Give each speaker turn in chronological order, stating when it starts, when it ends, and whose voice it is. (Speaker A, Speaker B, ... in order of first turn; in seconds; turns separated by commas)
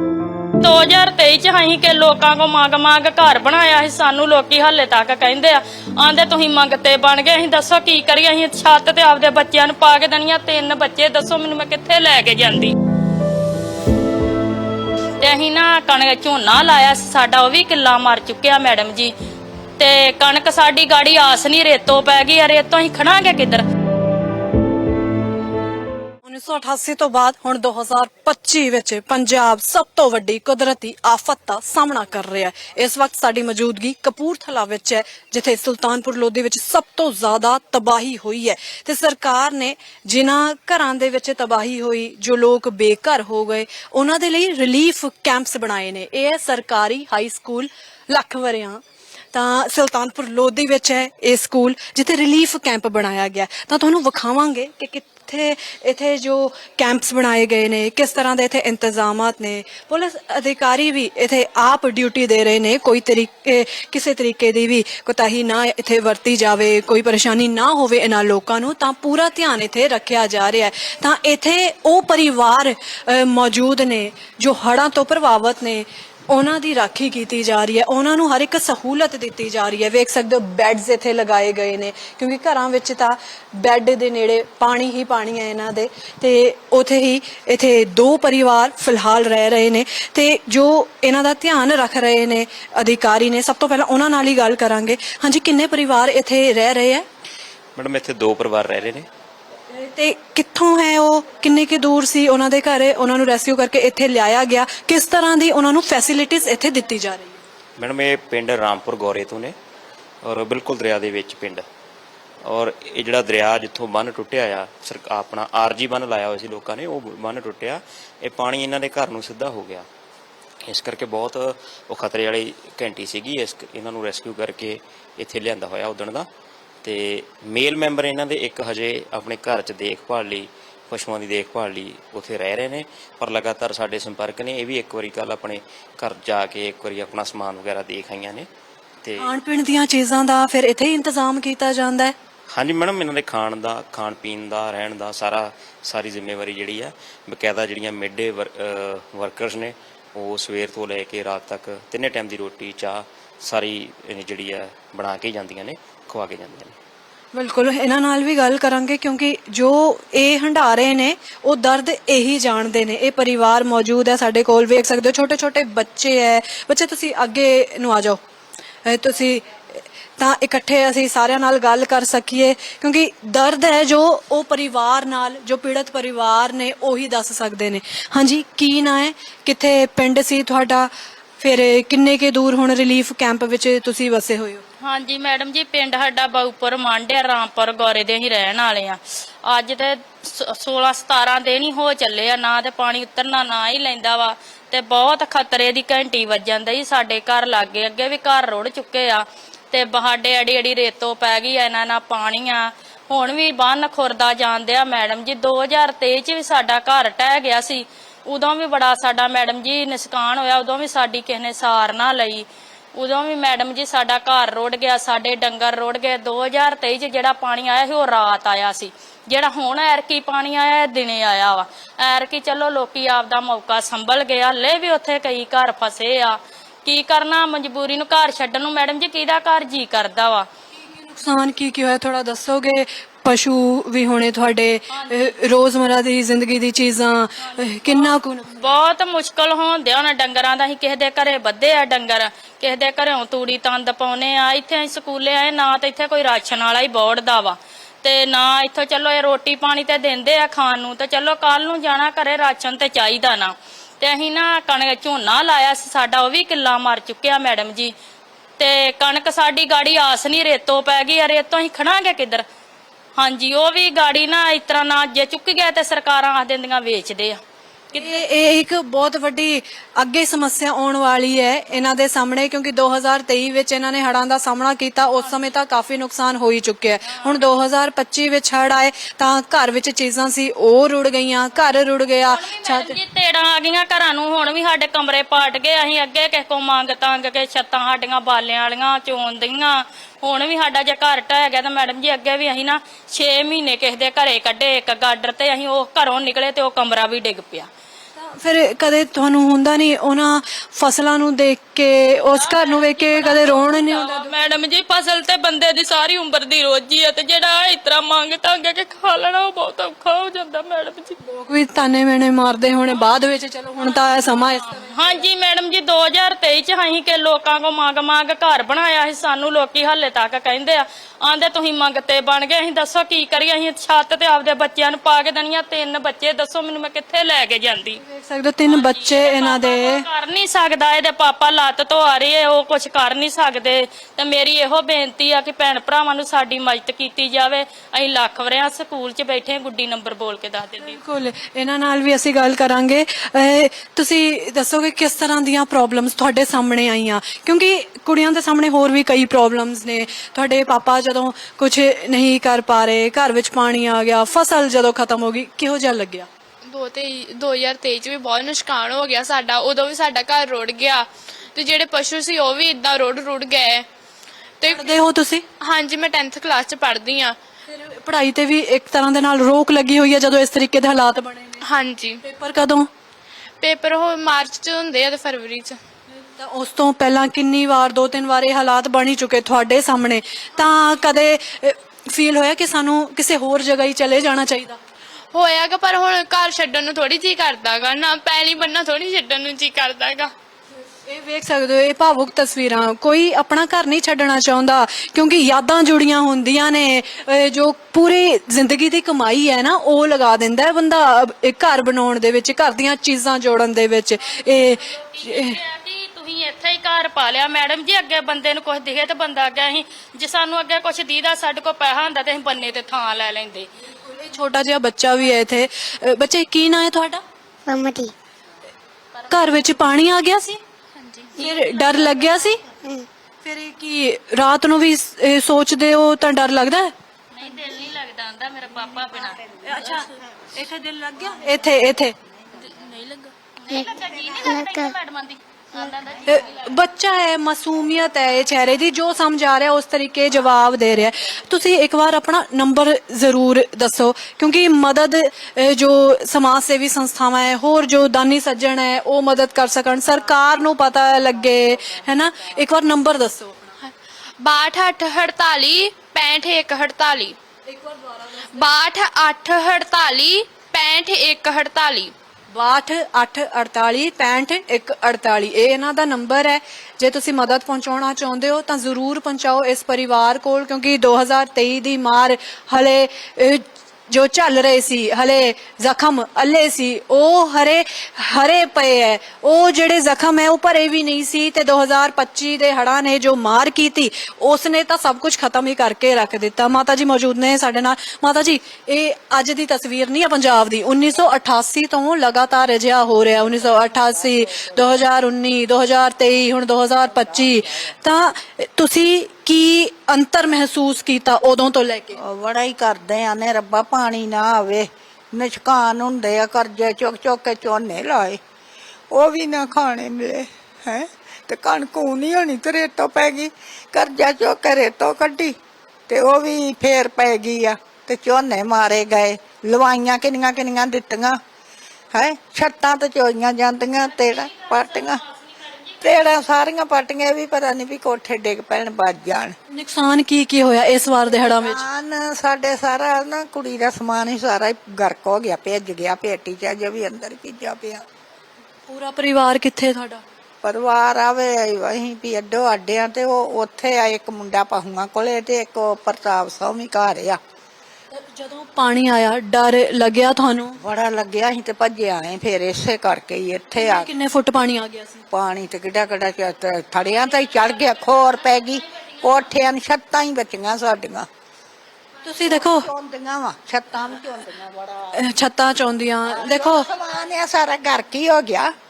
Speaker A: 0.6-12.7, Speaker A: 15.2-19.1, Speaker A: 19.8-23.6, Speaker B: 26.2-48.8, Speaker B: 49.3-97.0, Speaker C: 97.8-99.1, Speaker B: 99.7-107.4, Speaker C: 107.8-109.5, Speaker C: 110.2-111.6, Speaker C: 112.5-119.9, Speaker C: 120.7-126.3, Speaker C: 126.8-138.5, Speaker C: 139.0-139.3, Speaker B: 139.2-142.1, Speaker C: 142.5-156.8, Speaker B: 157.3-168.2, Speaker B: 168.8-184.6, Speaker A: 184.8-230.5, Speaker B: 230.7-238.8, Speaker A: 234.9-235.3, Speaker A: 237.4-257.9, Speaker A: 258.6-262.4, Speaker A: 263.2-267.4, Speaker A: 267.9-268.2, Speaker B: 267.9-283.0, Speaker A: 277.1-277.4, Speaker A: 282.3-297.7, Speaker B: 298.2-304.4, Speaker A: 302.4-311.2, Speaker B: 311.2-315.2, Speaker A: 314.7-328.0, Speaker B: 328.0-330.1, Speaker A: 328.7-341.0, Speaker B: 340.8-356.3, Speaker D: 356.7-363.9, Speaker D: 364.6-364.9, Speaker B: 364.7-365.5, Speaker D: 365.6-367.4, Speaker B: 367.7-371.7, Speaker D: 371.6-372.2, Speaker B: 372.2-372.9, Speaker D: 373.6-375.8, Speaker B: 376.1-384.8, Speaker D: 385.3-390.3, Speaker B: 391.0-405.6, Speaker A: 404.2-413.7, Speaker B: 413.9-417.2, Speaker E: 417.7-418.1, Speaker B: 419.3-420.6, Speaker A: 421.3-422.2, Speaker B: 421.4-422.6, Speaker E: 422.8-423.1, Speaker B: 423.4-426.9, Speaker A: 427.3-429.6, Speaker B: 429.6-432.2, Speaker A: 432.6-436.7, Speaker E: 433.7-434.9, Speaker B: 436.3-453.8, Speaker D: 453.8-457.4, Speaker B: 457.7-458.7, Speaker D: 458.6-462.1, Speaker B: 462.5-502.2, Speaker F: 502.2-508.4, Speaker F: 509.1-515.6, Speaker F: 516.1-521.4, Speaker F: 522.1-525.2, Speaker A: 524.1-526.3, Speaker F: 526.0-529.5, Speaker B: 529.7-531.9, Speaker F: 531.3-538.0, Speaker B: 538.9-540.2, Speaker F: 540.6-547.4, Speaker B: 548.1-550.8, Speaker F: 550.8-554.1, Speaker B: 553.8-555.3, Speaker F: 555.3-561.3, Speaker A: 558.0-559.3, Speaker B: 562.2-562.9, Speaker F: 562.5-565.1, Speaker B: 565.1-566.9, Speaker F: 566.3-568.7